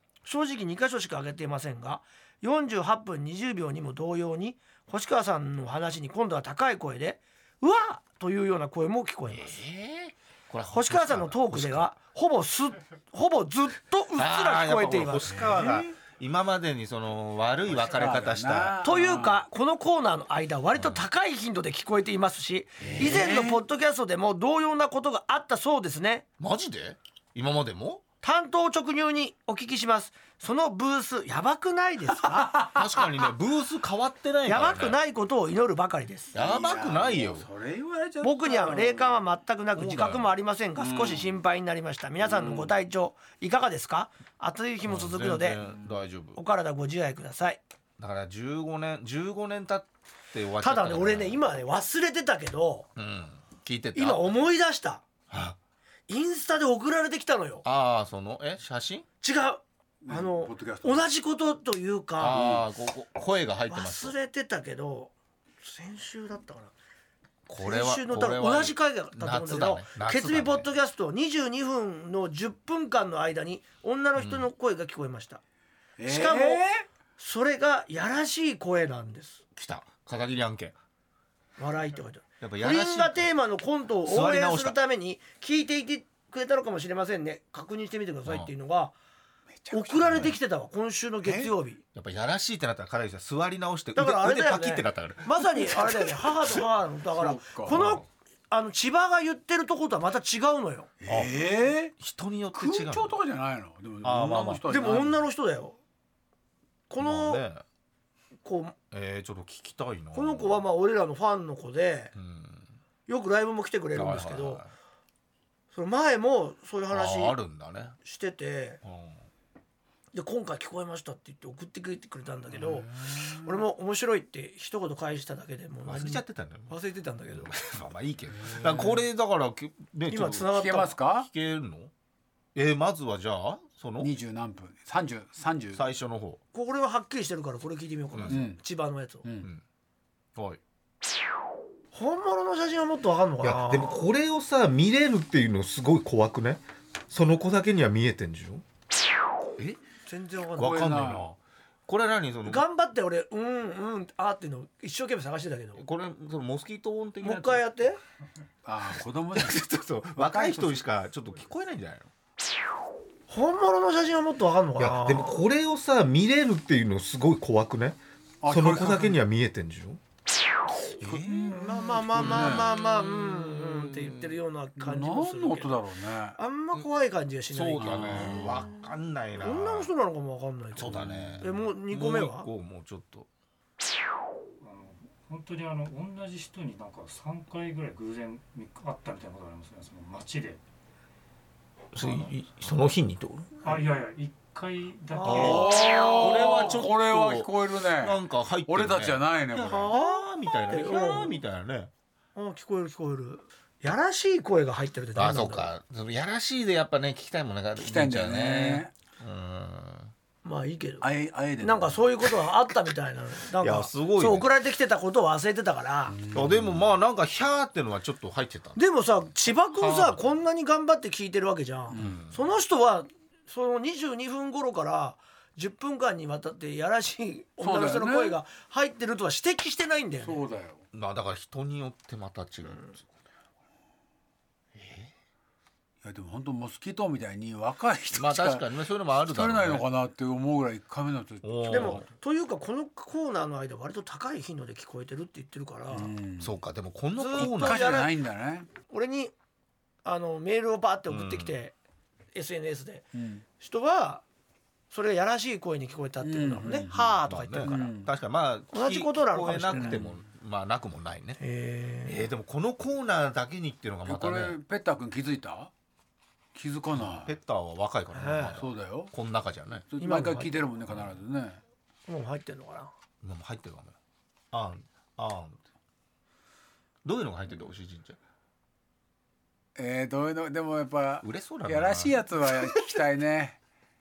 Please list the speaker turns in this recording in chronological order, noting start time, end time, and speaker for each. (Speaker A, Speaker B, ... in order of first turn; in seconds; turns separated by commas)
Speaker A: 0.2-9.5, Speaker B: 9.3-11.9, Speaker A: 10.7-15.3, Speaker B: 14.1-18.8, Speaker C: 15.3-15.9, Speaker C: 17.7-19.4, Speaker A: 18.8-26.2, Speaker B: 20.7-21.0, Speaker B: 22.8-23.2, Speaker C: 22.9-23.6, Speaker B: 26.4-28.0, Speaker A: 28.2-32.8, Speaker C: 32.4-32.7, Speaker B: 32.6-35.0, Speaker A: 34.5-36.3, Speaker B: 36.3-37.5, Speaker C: 36.3-39.2, Speaker A: 38.2-45.6, Speaker B: 39.7-40.3, Speaker C: 40.8-41.3, Speaker C: 42.2-42.7, Speaker B: 44.8-46.4, Speaker C: 45.6-46.0, Speaker A: 46.3-47.6, Speaker B: 48.0-51.4, Speaker A: 50.6-52.9, Speaker B: 53.0-54.4, Speaker A: 53.9-55.0, Speaker B: 55.3-55.6, Speaker A: 56.1-57.6, Speaker B: 57.6-59.1, Speaker A: 59.2-62.4, Speaker C: 60.0-61.1, Speaker B: 62.2-64.1, Speaker C: 62.3-62.6, Speaker A: 63.7-66.7, Speaker B: 67.5-70.7, Speaker A: 67.6-75.4, Speaker B: 74.2-74.5, Speaker C: 76.0-76.8, Speaker A: 76.0-76.6, Speaker A: 77.2-79.4, Speaker B: 79.5-80.7, Speaker A: 81.6-88.9, Speaker B: 82.4-83.3, Speaker B: 84.0-84.8, Speaker B: 88.2-88.5, Speaker C: 89.5-90.3, Speaker A: 89.7-91.8, Speaker C: 91.2-91.5, Speaker B: 91.9-96.2, Speaker A: 94.0-100.9, Speaker C: 97.1-97.8, Speaker B: 97.7-98.0, Speaker C: 101.0-101.9, Speaker B: 101.1-101.3, Speaker B: 102.0-103.2, Speaker C: 102.5-105.2, Speaker B: 104.0-104.7, Speaker A: 104.7-105.8, Speaker A: 106.9-107.4, Speaker B: 107.0-107.6, Speaker A: 108.4-108.8, Speaker B: 108.9-110.6, Speaker A: 110.1-112.1, Speaker B: 112.1-112.7, Speaker A: 113.1-114.6, Speaker B: 113.9-114.7, Speaker A: 115.7-117.4, Speaker B: 116.9-118.0, Speaker A: 118.0-118.8, Speaker B: 118.8-119.2, Speaker A: 120.1-127.5, Speaker C: 122.7-123.3, Speaker B: 125.8-126.8, Speaker B: 127.3-130.5, Speaker C: 128.3-129.0, Speaker A: 130.1-130.9, Speaker C: 130.5-131.3, Speaker B: 131.1-131.9, Speaker B: 132.5-134.1, Speaker C: 134.0-135.8, Speaker B: 135.7-136.4, Speaker A: 136.5-139.2, Speaker B: 138.1-138.4, Speaker C: 138.3-138.6, Speaker C: 139.2-139.5, Speaker A: 141.9-144.0, Speaker B: 143.4-148.6, Speaker A: 150.1-150.9, Speaker B: 150.6-152.6, Speaker C: 150.6-151.3, Speaker A: 152.4-155.8, Speaker B: 155.8-157.7, Speaker A: 157.2-158.0, Speaker C: 158.6-160.8, Speaker B: 159.3-162.1, Speaker A: 163.3-165.4, Speaker B: 164.8-170.0, Speaker C: 168.4-169.2, Speaker B: 171.0-171.6, Speaker C: 171.0-172.9, Speaker A: 171.5-175.8, Speaker B: 172.1-174.2, Speaker C: 174.8-176.4, Speaker A: 176.4-178.8, Speaker B: 177.5-179.9, Speaker C: 177.8-178.6, Speaker A: 179.4-182.5, Speaker B: 180.7-183.3, Speaker C: 180.8-181.5, Speaker D: 184.6-190.6, Speaker B: 191.9-193.7, Speaker D: 193.6-195.9, Speaker A: 195.1-196.7, Speaker B: 195.2-201.9, Speaker C: 195.4-199.9, Speaker A: 199.7-201.4, Speaker A: 202.3-205.7, Speaker B: 205.1-210.1, Speaker C: 207.8-208.9, Speaker A: 210.4-211.1, Speaker C: 211.0-212.2, Speaker A: 211.6-216.2, Speaker B: 213.6-214.5, Speaker C: 216.1-216.9, Speaker B: 216.3-218.8, Speaker A: 218.8-230.4, Speaker B: 219.8-220.2, Speaker C: 221.9-222.2, Speaker B: 221.9-222.4, Speaker C: 227.6-228.4, Speaker C: 230.2-230.8, Speaker B: 230.9-233.1, Speaker B: 234.7-235.1, Speaker C: 236.0-242.0, Speaker B: 238.1-239.8, Speaker B: 241.4-242.1, Speaker A: 241.7-246.1, Speaker C: 245.9-246.6, Speaker B: 246.4-248.0, Speaker A: 247.2-248.1, Speaker C: 247.3-248.7, Speaker A: 248.9-249.3, Speaker A: 250.0-251.7, Speaker B: 251.1-251.6, Speaker A: 252.3-253.1, Speaker C: 253.1-253.4, Speaker A: 253.6-254.2, Speaker A: 254.9-258.0, Speaker C: 256.2-258.1, Speaker B: 256.9-261.4, Speaker A: 258.7-260.0, Speaker C: 259.7-260.2, Speaker A: 261.4-262.2, Speaker B: 262.0-264.6, Speaker C: 264.1-265.7, Speaker C: 266.5-267.4, Speaker B: 267.1-269.9, Speaker A: 268.1-268.6, Speaker C: 268.5-269.1, Speaker C: 269.9-271.6, Speaker A: 270.0-270.7, Speaker B: 270.9-271.1, Speaker A: 272.1-272.9, Speaker B: 273.2-273.9, Speaker B: 274.5-275.6, Speaker B: 277.0-278.2, Speaker C: 279.8-283.6, Speaker B: 281.2-283.0